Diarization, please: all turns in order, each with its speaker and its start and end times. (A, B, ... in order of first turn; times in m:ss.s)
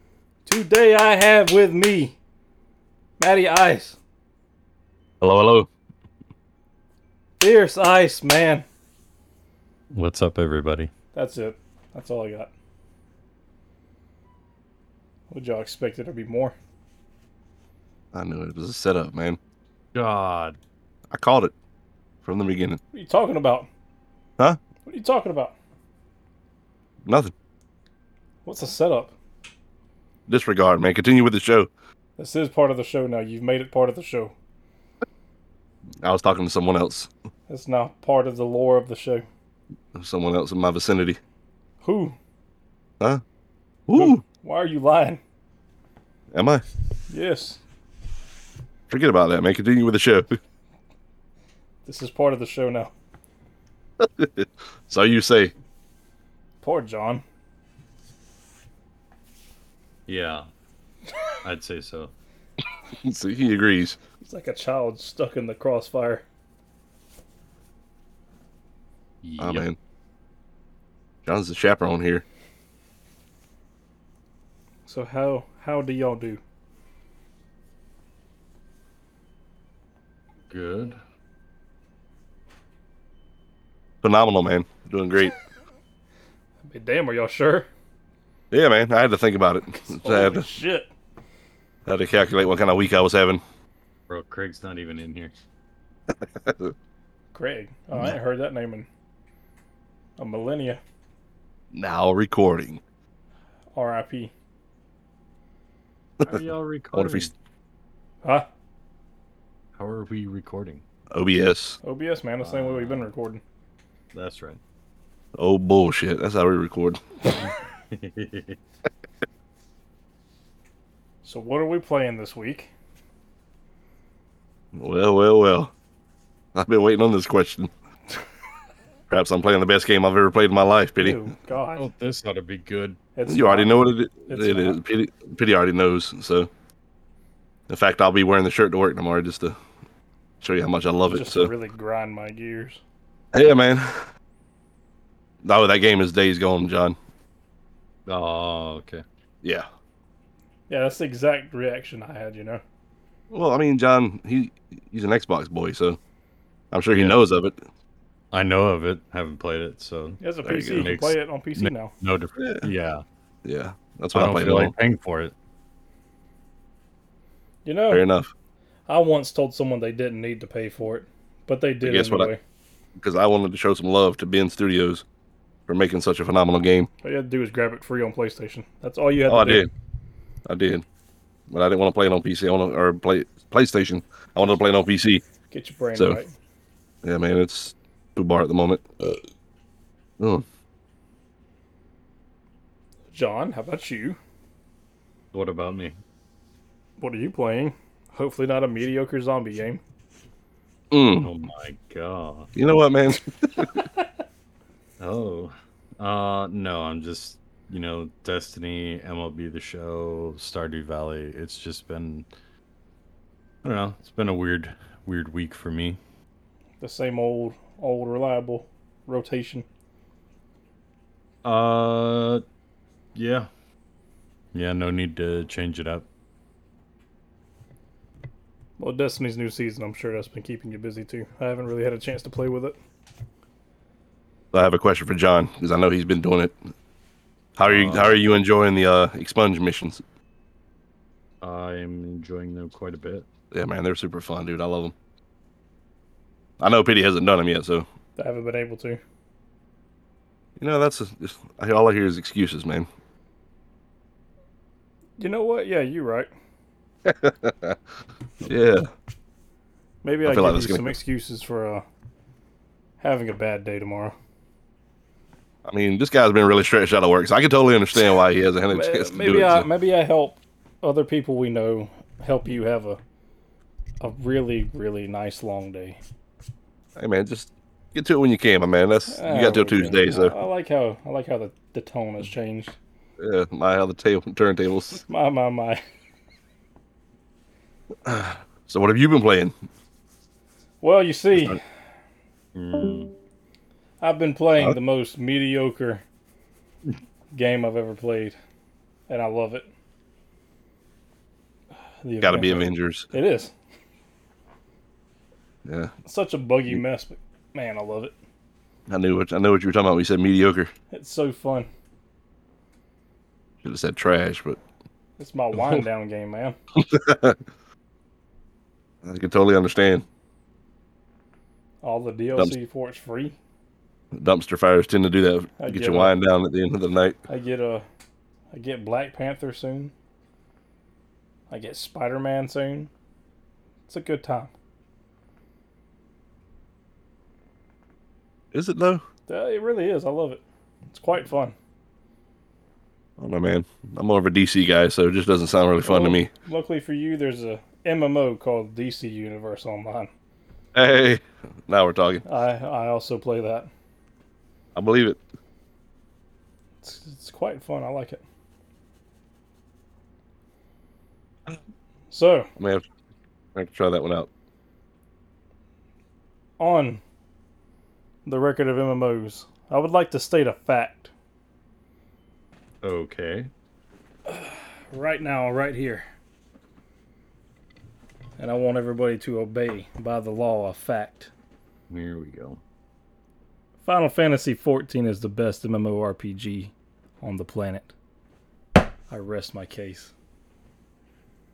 0:00.4-0:02.2 A
0:03.2-0:04.0 A
0:05.2-0:05.7 B
0:07.4-0:08.6 A
0:09.9-0:10.9 C
0:11.1-0:12.5 A
0:15.3-0:16.5 A
0:18.1-0:19.4 B
0:19.9-0:20.6 C
0:21.1-0:21.5 B
0:22.2-0:22.8 B
0:22.9-0:23.7 A
0:24.8-0:25.5 A
0:27.0-0:27.3 B
0:28.4-0:29.1 A
0:30.3-0:31.7 B
0:32.2-0:34.3 A
0:36.0-0:37.1 B
0:37.5-0:39.2 A
0:39.9-0:41.2 B
0:41.8-0:42.2 A
0:43.9-0:44.2 B
0:43.9-0:45.2 A
0:46.3-0:46.6 B
0:47.1-0:47.6 A
0:48.9-0:50.4 B
0:51.8-0:52.9 A
0:54.0-0:55.5 B
0:56.6-0:57.2 A
1:00.1-1:00.5 C
1:01.4-1:02.1 C
1:02.9-1:04.0 B
1:04.2-1:06.2 A
1:09.2-1:09.6 C
1:09.4-1:09.8 B
1:11.2-1:12.2 B
1:14.9-1:16.4 A
1:20.5-1:21.0 C
1:24.0-1:25.3 B
1:26.6-1:27.7 A
1:28.5-1:30.5 B
1:29.7-1:30.9 A
1:31.8-1:33.4 B
1:34.1-1:35.3 C
1:36.1-1:36.7 B
1:37.3-1:38.9 A
1:40.2-1:40.8 A
1:41.7-1:42.8 B
1:43.7-1:44.3 A
1:46.2-1:47.3 B
1:46.2-1:47.3 C
1:49.8-1:50.8 C
1:51.1-1:51.8 B
1:51.8-1:53.4 A
1:52.4-1:53.0 C
1:54.1-1:54.6 C
1:55.4-1:57.0 B
1:57.4-1:58.6 C
2:01.2-2:02.7 A
2:04.7-2:05.7 B
2:06.5-2:07.7 B
2:09.1-2:11.2 B
2:11.0-2:11.9 A
2:11.8-2:13.0 C
2:13.2-2:14.8 A
2:13.2-2:16.5 B
2:17.7-2:19.6 B
2:20.4-2:21.5 B
2:21.1-2:22.8 A
2:23.3-2:24.0 B
2:25.4-2:27.0 B
2:28.1-2:29.0 C
2:30.7-2:32.6 A
2:33.3-2:36.0 B
2:36.7-2:37.6 B
2:38.3-2:40.2 C
2:40.2-2:41.9 A
2:40.4-2:40.9 B
2:40.7-2:43.0 C
2:43.4-2:44.7 B
2:44.1-2:45.3 C
2:47.6-2:48.0 A
2:47.9-2:48.3 B
2:48.9-2:52.4 A
2:51.8-2:52.3 B
2:53.0-2:55.0 B
2:55.7-2:56.9 B
2:57.0-2:59.7 A
2:59.3-2:59.7 B
3:00.4-3:00.8 B
3:01.5-3:05.2 B
3:05.5-3:06.3 A
3:07.0-3:09.2 B
3:10.2-3:10.4 B
3:13.1-3:14.2 A
3:15.3-3:16.0 C
3:17.0-3:19.8 A
3:20.9-3:21.3 B
3:21.2-3:22.5 C
3:22.5-3:23.7 B
3:25.0-3:32.2 C
3:33.6-3:36.0 C
3:36.8-3:39.6 A
3:41.4-3:42.4 C
3:43.1-3:43.5 C
3:44.5-3:46.0 C
3:48.8-3:52.8 A
3:54.5-3:56.5 B
3:57.6-4:00.0 B
3:57.6-3:58.2 C
4:01.4-4:03.2 C
4:03.5-4:04.9 B
4:06.6-4:07.9 B
4:08.2-4:09.0 A
4:10.6-4:12.9 B
4:15.2-4:16.3 A
4:17.0-4:17.8 B
4:18.4-4:18.9 B
4:20.0-4:21.8 A
4:20.2-4:20.9 B
4:23.0-4:24.1 A
4:25.6-4:29.7 B
4:28.7-4:33.0 A
4:34.0-4:36.0 A
4:37.0-4:40.3 B
4:39.1-4:42.8 A
4:43.2-4:45.0 B
4:45.0-4:45.8 A
4:48.0-4:49.5 B
4:50.8-4:51.6 A
4:52.5-4:53.1 C
4:54.0-4:56.0 A
4:57.3-4:58.4 A
4:59.1-4:59.7 A
5:02.0-5:03.5 A
5:02.2-5:03.1 B
5:05.6-5:05.9 B
5:06.0-5:08.1 A
5:08.9-5:10.7 B
5:10.9-5:11.7 A
5:13.6-5:14.6 B
5:15.2-5:16.6 A
5:16.7-5:17.4 B
5:19.0-5:20.0 B
5:21.8-5:23.4 A
5:24.1-5:27.2 B
5:25.6-5:26.1 A
5:27.3-5:27.8 A
5:28.5-5:29.9 A
5:31.5-5:32.9 A
5:33.9-5:34.5 A
5:38.5-5:39.0 B
5:39.3-5:41.5 A
5:43.2-5:46.3 B
5:45.8-5:50.1 A
5:50.7-5:52.2 B
5:52.2-5:53.7 A
5:54.7-5:55.2 B
5:56.8-5:58.2 A
6:02.1-6:02.5 A
6:02.6-6:02.8 B
6:03.5-6:04.3 B
6:06.6-6:07.0 A
6:08.2-6:11.1 A
6:12.8-6:13.5 C
6:14.3-6:16.0 A
6:18.4-6:21.3 A
6:21.9-6:22.6 C
6:23.8-6:27.9 A
6:29.1-6:30.1 A